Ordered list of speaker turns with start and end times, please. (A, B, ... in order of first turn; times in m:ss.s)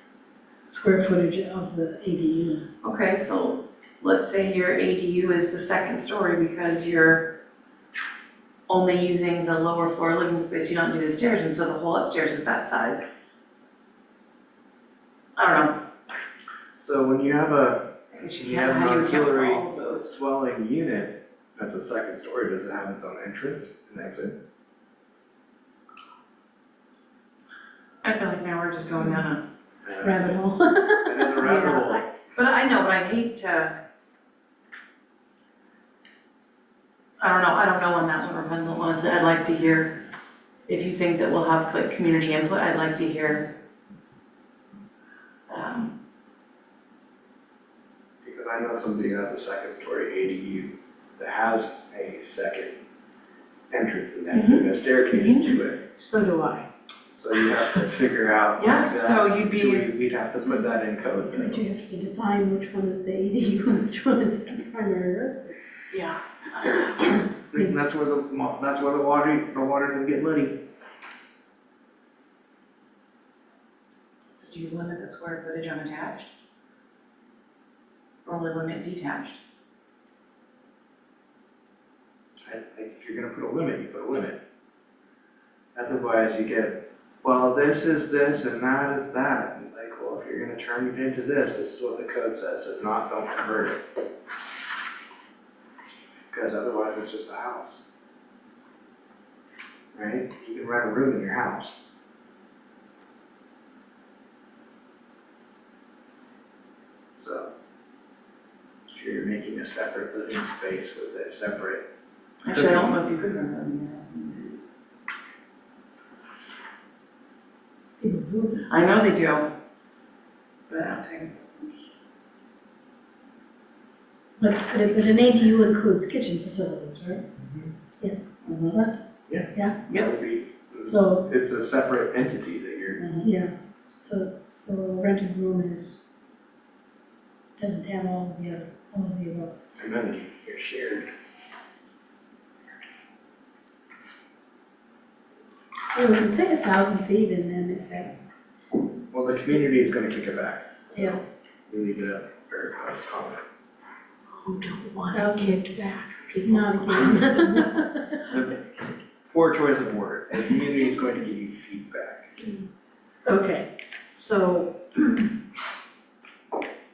0:00.7-0:02.6 A
0:02.8-0:07.3 B
0:08.7-0:13.0 B
0:15.4-0:15.8 B
0:16.8-0:24.3 C
0:18.1-0:20.2 B
0:28.0-0:29.4 B
0:29.8-0:30.3 C
0:30.0-0:32.0 A
0:31.0-0:32.0 C
0:32.3-0:33.7 B
0:37.2-0:40.0 B
0:40.7-0:43.5 B
0:45.5-0:45.9 B
0:48.2-0:52.8 C
0:53.7-0:55.8 C
0:54.3-0:55.6 B
0:56.0-0:56.7 A
0:57.1-1:01.6 C
0:58.6-0:59.9 B
1:01.3-1:05.6 A
1:05.9-1:07.2 B
1:07.5-1:10.6 C
1:14.3-1:16.3 B
1:18.2-1:19.4 B
1:22.4-1:24.4 C
1:25.7-1:33.8 C
1:36.3-1:37.8 C
1:39.9-1:41.8 C
1:47.2-1:47.5 C
1:48.9-1:51.9 C
1:52.4-1:54.6 B
1:52.5-1:52.9 C
1:58.0-1:58.6 A
1:58.7-1:59.5 B
2:00.7-2:01.8 B
2:04.4-2:07.2 A
2:07.4-2:07.7 C
2:08.4-2:08.8 B
2:09.3-2:13.0 C
2:10.9-2:11.2 A
2:13.0-2:13.3 B
2:13.2-2:16.0 A
2:17.6-2:19.6 A
2:19.8-2:21.1 C
2:25.9-2:28.1 A
2:29.1-2:31.2 C
2:31.7-2:33.4 C
2:34.4-2:37.8 D
2:35.1-2:37.8 A
2:38.3-2:38.6 C
2:39.3-2:42.3 C
2:43.3-2:44.7 A